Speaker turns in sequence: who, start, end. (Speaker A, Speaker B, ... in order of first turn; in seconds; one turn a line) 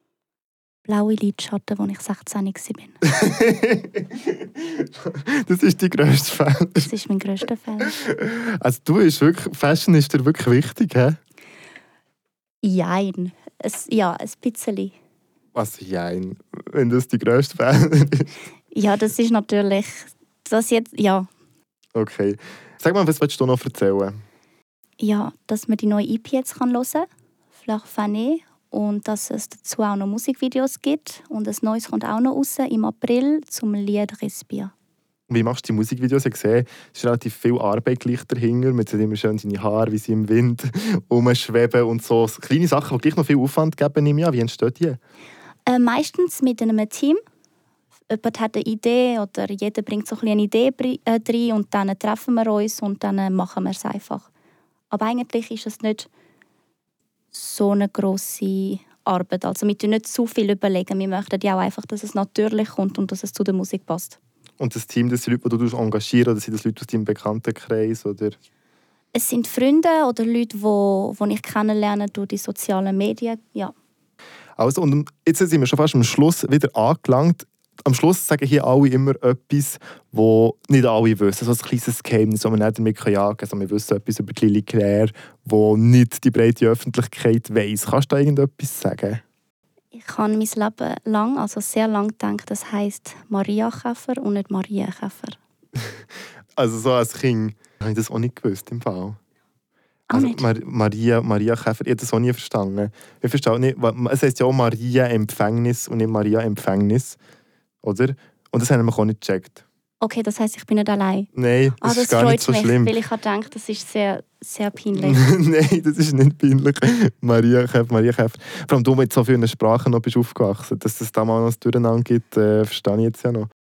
Speaker A: 0.9-3.0
Speaker B: 3.1-6.9
Speaker A: 6.8-7.9
Speaker B: 7.8-11.2
Speaker A: 12.6-15.0
Speaker B: 15.6-18.3
Speaker A: 18.7-21.3
Speaker B: 21.9-24.2
Speaker A: 25.0-27.1
Speaker A: 27.6-34.7
Speaker B: 35.3-45.0
Speaker A: 45.7-47.2
Speaker A: 48.1-54.3
Speaker A: 54.9-56.1
Speaker A: 57.3-64.2
Speaker B: 64.6-68.4
Speaker A: 69.1-73.7
Speaker B: 74.6-89.2
Speaker A: 89.9-95.4
Speaker B: 96.6-99.2
Speaker A: 100.1-100.5
Speaker B: 100.1-107.2
Speaker B: 107.8-109.6
Speaker A: 110.0-111.3
Speaker B: 111.3-112.9
Speaker A: 111.8-115.2
Speaker B: 115.0-123.5